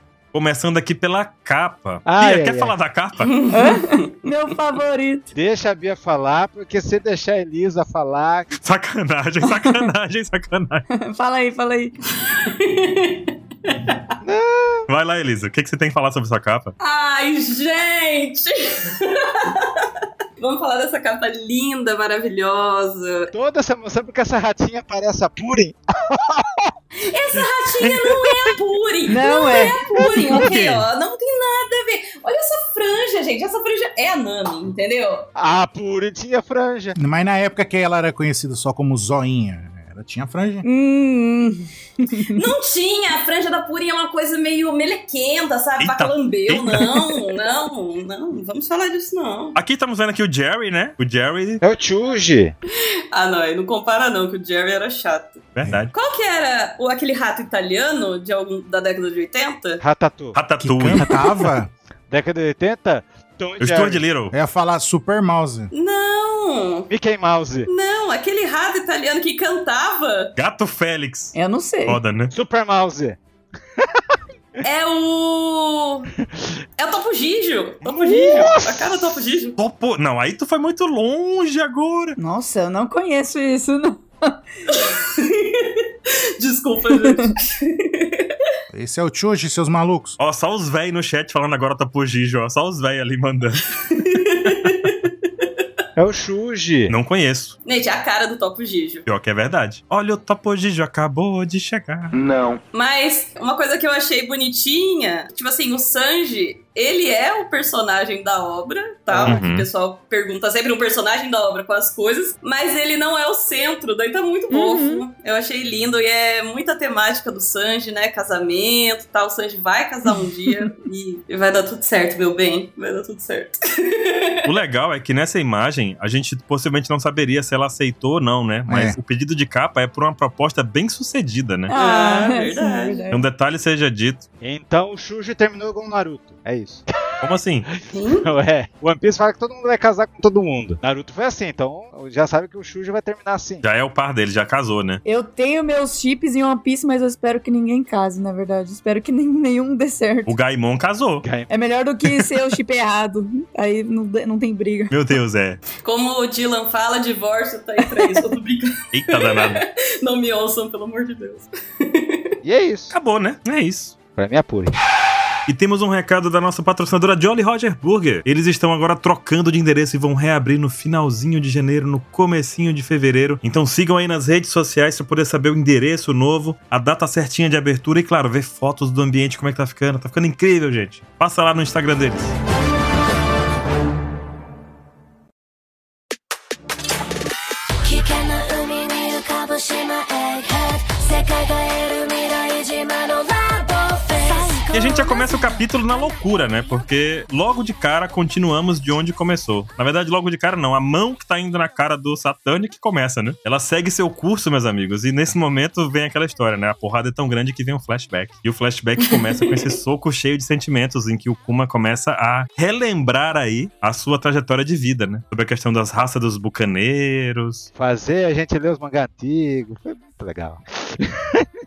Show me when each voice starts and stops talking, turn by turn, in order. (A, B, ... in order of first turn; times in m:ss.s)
0:00.3-0:03.3 A
0:02.0-0:02.7 B
0:03.2-0:04.1 C
0:03.5-0:05.3 D
0:05.3-0:08.5 B
0:08.6-0:10.8 A
0:09.4-0:09.8 D
0:10.9-0:12.0 D
0:12.2-0:14.1 C
0:14.2-0:14.9 B
0:14.9-0:16.7 A
0:16.8-0:23.3 C
0:23.3-0:26.7 B
0:27.0-0:35.2 C
0:27.4-0:28.4 B
0:29.1-0:29.7 D
0:29.9-0:30.3 B
0:30.2-0:30.9 A
0:35.4-0:37.0 B
0:37.0-0:40.7 E
0:40.6-0:42.4 D
0:42.3-0:49.6 C
0:45.8-0:47.0 A
0:49.6-0:51.6 A
0:51.6-0:52.6 B
0:53.1-0:59.8 C
0:55.6-0:55.9 A
0:59.8-1:00.4 B
1:00.4-1:01.1 A
1:00.6-1:01.7 E
1:02.1-1:04.0 B
1:03.6-1:04.3 A
1:04.3-1:05.7 E
1:05.7-1:06.9 C
1:06.9-1:07.7 B
1:07.7-1:10.3 C
1:10.4-1:11.4 A
1:11.3-1:12.0 D
1:11.9-1:12.3 A
1:12.3-1:13.2 B
1:13.8-1:14.2 B
1:14.6-1:16.1 C
1:16.8-1:19.6 C
1:17.9-1:19.1 B
1:19.6-1:22.2 A
1:22.2-1:24.4 D
1:24.7-1:28.4 C
1:27.0-1:27.4 D
1:28.7-1:30.2 E
1:30.2-1:33.6 A
1:33.8-1:35.7 C
1:36.0-1:37.0 B
1:36.9-1:37.6 A
1:37.6-1:39.0 C
1:39.1-1:42.2 A
1:42.7-2:04.5 C
1:49.1-1:49.4 B
1:49.2-1:49.7 A
1:54.5-1:55.1 D
2:00.1-2:00.7 D
2:04.4-2:11.7 A
2:08.7-2:09.0 E
2:11.7-2:13.2 D
2:11.7-2:13.1 C
2:13.1-2:14.3 A
2:14.4-2:17.3 B
2:17.2-2:17.7 A
2:17.9-2:18.3 C
2:18.1-2:23.6 B
2:23.6-2:25.0 A
2:25.0-2:30.4 D
2:30.3-2:31.3 A
2:31.2-2:31.5 B
2:31.5-2:35.0 D
2:34.9-2:35.6 A
2:35.8-2:42.4 C
2:37.8-2:38.3 D
2:38.9-2:39.6 A
2:42.4-2:43.0 B
2:42.9-2:44.0 A
2:44.2-2:44.7 B
2:45.5-3:02.4 A
3:07.8-3:15.6 F
3:14.3-3:14.6 D
3:14.7-3:37.7 A
3:37.8-3:41.5 B